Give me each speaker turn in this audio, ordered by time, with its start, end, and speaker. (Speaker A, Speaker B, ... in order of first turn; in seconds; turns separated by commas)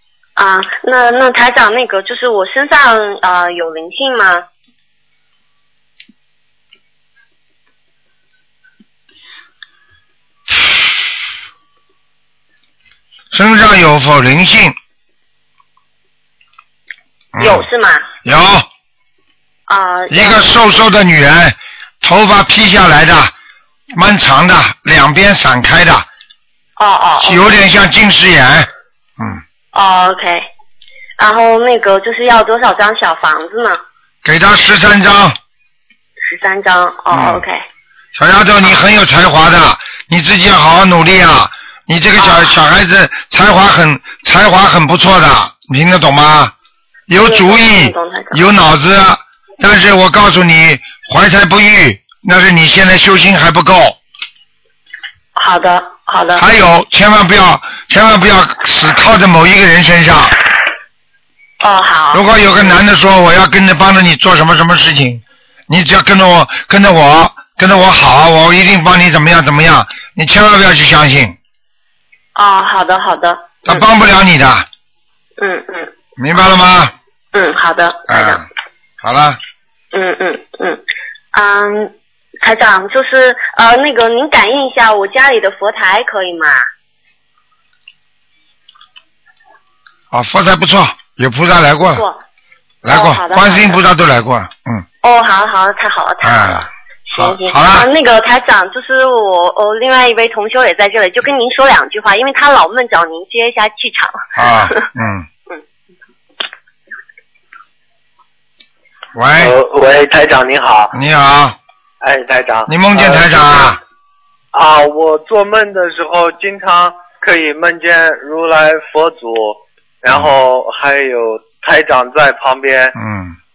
Speaker A: 0.4-4.5, Speaker B: 13.3-14.7, Speaker B: 17.3-17.7, Speaker A: 17.4-18.1, Speaker B: 18.2-18.7, Speaker A: 19.7-20.5, Speaker B: 20.1-23.3, Speaker B: 23.9-26.1, Speaker A: 26.8-27.5, Speaker B: 27.2-29.4, Speaker A: 29.7-30.5, Speaker A: 31.2-33.8, Speaker B: 34.2-35.4, Speaker A: 36.2-37.6, Speaker B: 37.1-37.4, Speaker B: 38.1-46.5, Speaker A: 42.2-42.6, Speaker B: 47.1-54.0, Speaker A: 47.1-48.4, Speaker A: 55.4-56.4, Speaker B: 56.4-60.3, Speaker A: 61.6-62.7, Speaker B: 62.1-71.3, Speaker A: 72.3-73.8, Speaker B: 73.6-74.7, Speaker A: 75.4-75.9, Speaker B: 76.2-76.9, Speaker A: 77.3-78.5, Speaker B: 78.1-78.5, Speaker B: 79.0-79.4, Speaker A: 79.9-80.8, Speaker A: 81.3-86.6, Speaker B: 90.1-92.0, Speaker A: 91.9-92.2, Speaker B: 92.8-94.8, Speaker A: 92.8-93.8, Speaker A: 95.0-104.9, Speaker B: 96.2-97.9, Speaker B: 104.3-105.2, Speaker B: 109.1-109.5, Speaker C: 109.4-110.9, Speaker B: 110.9-111.6, Speaker C: 112.0-113.8, Speaker B: 112.7-113.8, Speaker C: 114.5-123.0, Speaker B: 123.0-123.3